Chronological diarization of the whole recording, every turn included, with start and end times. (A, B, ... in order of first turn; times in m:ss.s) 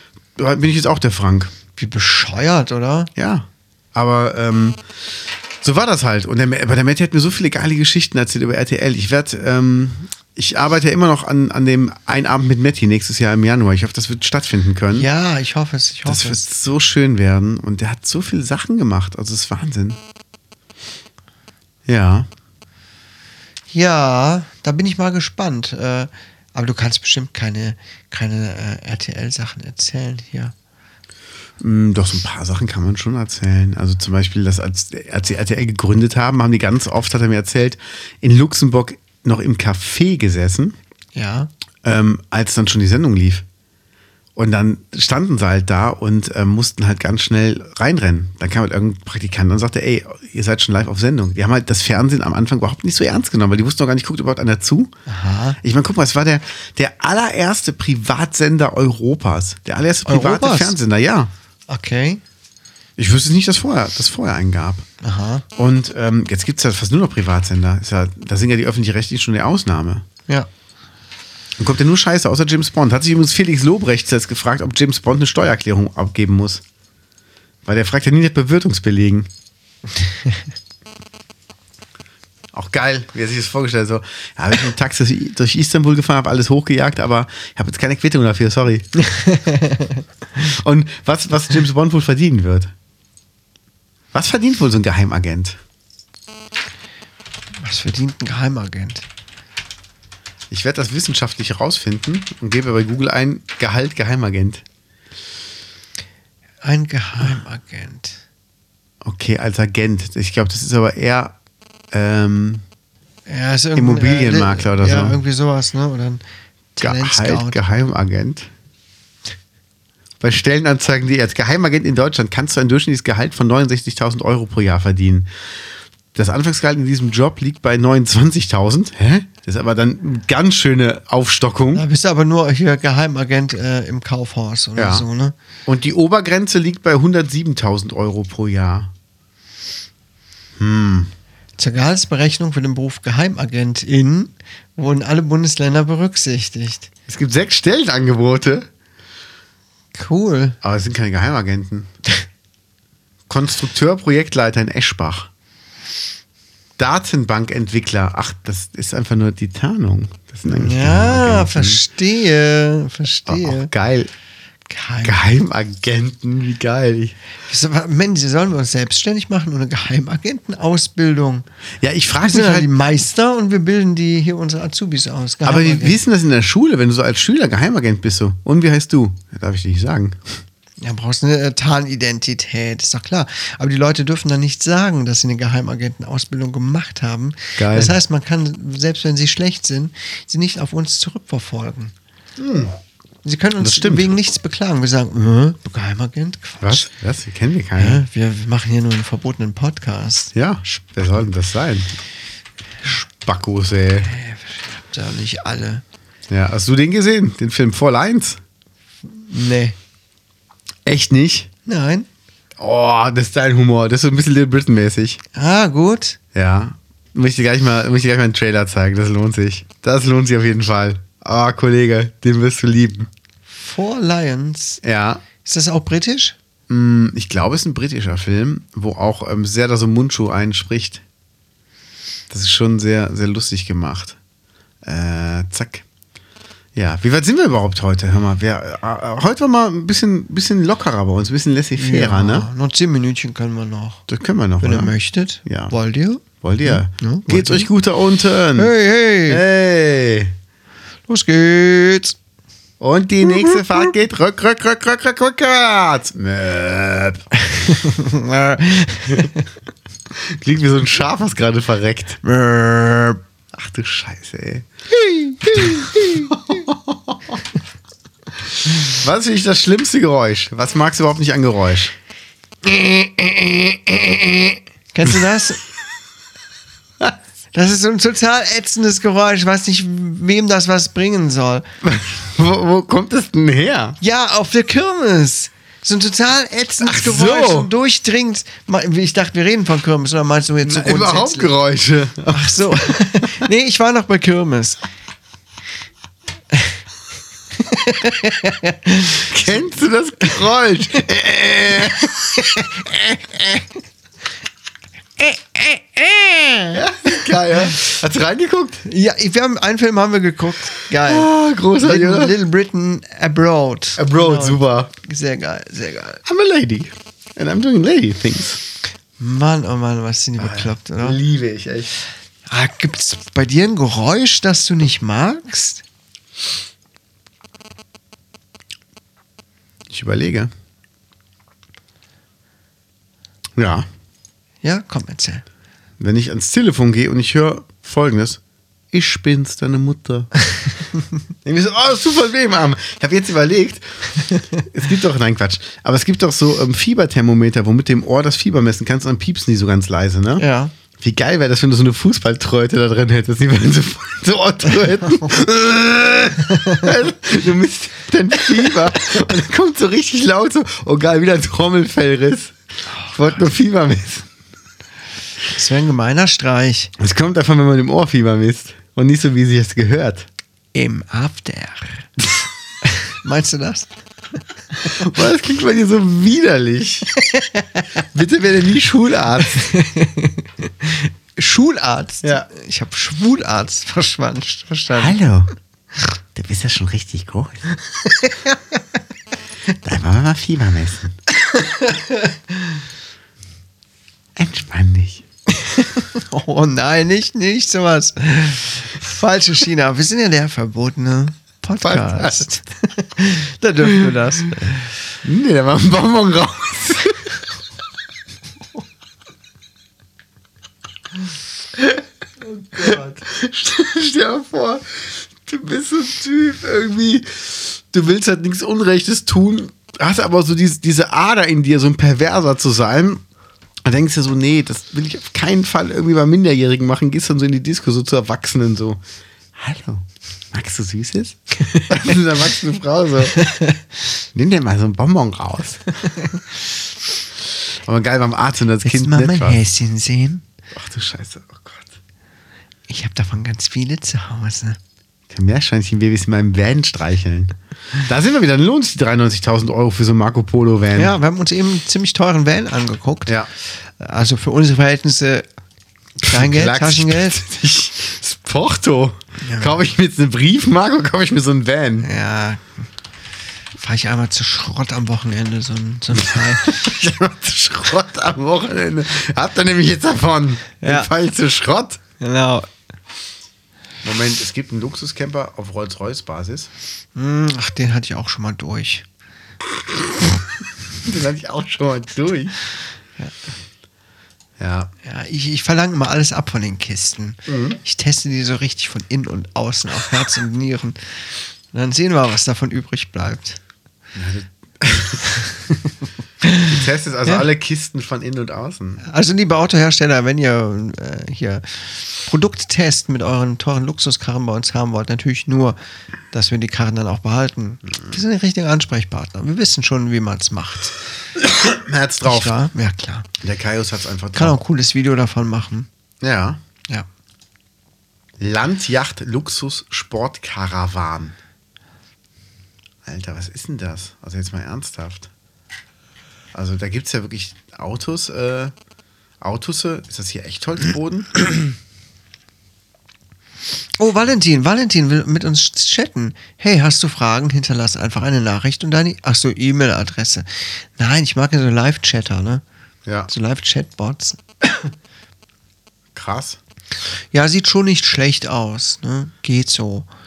0:00.4-0:01.5 A
0:01.8-0:03.1 B
0:03.2-0:04.8 A
0:05.6-0:15.1 A
0:14.9-0:16.5 B
0:16.1-0:20.0 A
0:21.9-0:22.3 A
0:23.7-0:30.6 B
0:31.6-0:40.8 A
0:41.1-0:41.5 B
0:41.8-0:43.4 A
0:44.4-0:54.9 A
0:55.1-0:55.6 B
0:55.6-1:01.3 A
1:00.1-1:00.8 B
1:01.7-1:02.2 B
1:03.0-1:04.9 A
1:05.0-1:05.4 B
1:05.6-1:10.0 A
1:11.6-1:16.6 A
1:17.6-1:19.3 A
1:22.5-1:28.9 A
1:29.0-1:30.0 B
1:30.4-1:32.7 A
1:34.1-1:35.6 A
1:37.6-1:39.1 B
1:40.5-1:44.6 A
1:46.6-1:48.2 B
1:49.0-1:51.4 A
1:51.9-1:52.6 A
1:53.3-1:56.2 B
1:53.8-1:55.2 A
1:56.8-1:57.6 B
1:56.8-1:58.5 A
2:00.2-2:05.3 A
2:06.1-2:11.8 A
2:11.7-2:15.4 B
2:14.8-2:15.1 A
2:15.6-2:18.9 A
2:20.6-2:21.1 A
2:21.6-2:26.9 B
2:27.1-2:28.7 A
2:29.9-2:30.6 B
2:30.6-2:31.9 A
2:33.3-2:35.3 A
2:36.8-2:41.8 A
2:40.5-2:43.7 B
2:43.3-2:44.1 A
2:44.7-2:45.2 B
2:45.0-2:47.2 A
2:47.5-2:51.5 B
2:51.8-2:52.7 A
2:52.2-2:56.0 B
2:55.4-3:00.4 A
3:00.8-3:11.9 B
3:07.6-3:08.0 A
3:12.4-3:12.8 A
3:13.2-3:16.9 B
3:13.6-3:14.1 A
3:16.6-3:18.0 A
3:17.8-3:20.8 B
3:20.3-3:21.9 A
3:22.8-3:24.1 A
3:24.0-3:25.8 B
3:26.3-3:28.4 A
3:29.1-3:29.8 B
3:30.8-3:31.5 A
3:31.6-3:32.1 B
3:32.6-3:35.2 A
3:35.3-3:36.2 B
3:36.3-3:43.1 A
3:43.5-3:44.8 B
3:44.8-3:45.2 A
3:45.4-3:46.4 B
3:46.7-3:51.0 A
3:52.3-3:54.2 A
3:54.8-3:55.8 A
3:56.8-4:02.5 A
4:01.8-4:04.0 B
4:04.1-4:05.7 A
4:04.6-4:07.7 B
4:06.4-4:08.7 A
4:08.6-4:09.4 B
4:09.3-4:10.3 A
4:11.1-4:12.2 B
4:12.8-4:17.3 A
4:13.2-4:13.9 B
4:17.5-4:19.5 B
4:20.1-4:22.2 A
4:22.2-4:23.2 B
4:23.5-4:24.6 A
4:24.9-4:26.6 B
4:25.6-4:27.4 A
4:28.8-4:31.9 A
4:32.6-4:35.6 B
4:37.5-4:41.7 B
4:41.8-4:44.0 A
4:44.0-4:51.5 B
4:46.8-4:47.7 A
4:50.6-4:53.4 A
4:52.3-4:54.8 B
4:57.6-4:59.3 B
4:59.3-5:02.6 A
5:02.4-5:03.6 B
5:05.2-5:07.2 B
5:06.7-5:08.8 A
5:08.8-5:16.2 B
5:10.9-5:12.4 A
5:14.0-5:14.9 A
5:16.2-5:18.6 A
5:19.2-5:21.2 B
5:20.4-5:21.9 A
5:22.5-5:25.8 B
5:29.9-5:30.5 A
5:33.6-5:33.9 A
5:34.6-5:35.4 B
5:36.0-5:38.4 A
5:38.9-5:40.3 A
5:41.4-5:44.1 A
5:44.6-5:50.4 A
5:50.4-5:50.7 B
5:51.0-6:02.6 A
5:56.5-5:56.8 B
6:02.9-6:03.3 B
6:03.1-6:04.3 A
6:05.5-6:06.9 B
6:07.0-6:10.3 A
6:10.8-6:12.1 B
6:12.8-6:13.9 B
6:14.8-6:17.1 A
6:17.2-6:17.9 B
6:18.1-6:19.7 A
6:19.5-6:25.2 B
6:22.2-6:22.5 A
6:24.9-6:25.5 A
6:26.4-6:27.7 A
6:28.0-6:28.8 B
6:29.7-6:31.2 A
6:31.5-6:32.4 B
6:34.4-6:35.2 A
6:35.6-6:44.9 B
6:41.8-6:42.5 A
6:45.2-6:47.4 A
6:52.4-7:03.2 A
7:03.8-7:09.0 A
7:09.6-7:13.5 A
7:14.3-7:15.9 A
7:17.8-7:19.6 A
7:18.8-7:20.4 B
7:20.7-7:22.0 A
7:22.9-7:24.8 B
7:25.3-7:31.2 A
7:30.9-7:35.5 B
7:36.2-7:42.1 A
7:36.2-7:37.4 B
7:39.4-7:39.8 B
7:42.0-7:42.9 B
7:43.8-7:46.8 B
7:46.3-7:52.0 A
7:50.8-7:51.1 B
7:52.2-7:52.7 B
7:54.0-7:56.7 A
7:57.2-7:59.0 B
8:01.0-8:02.6 A
8:04.6-8:04.9 A
8:05.0-8:13.6 B
8:07.5-8:07.8 A
8:14.2-8:15.4 A
8:16.4-8:17.4 B
8:16.6-8:19.0 A
8:19.0-8:25.8 B
8:26.3-8:31.0 B
8:31.4-8:32.5 A
8:32.2-8:33.3 B
8:33.4-8:34.6 A
8:34.4-8:35.9 B
8:36.2-8:36.6 A
8:38.4-8:41.4 A
8:43.0-8:45.3 A
8:46.5-8:48.7 A
8:49.4-8:51.6 A
8:54.0-9:02.6 B
9:03.3-9:04.9 B
9:06.2-9:06.6 A
9:07.3-9:10.1 B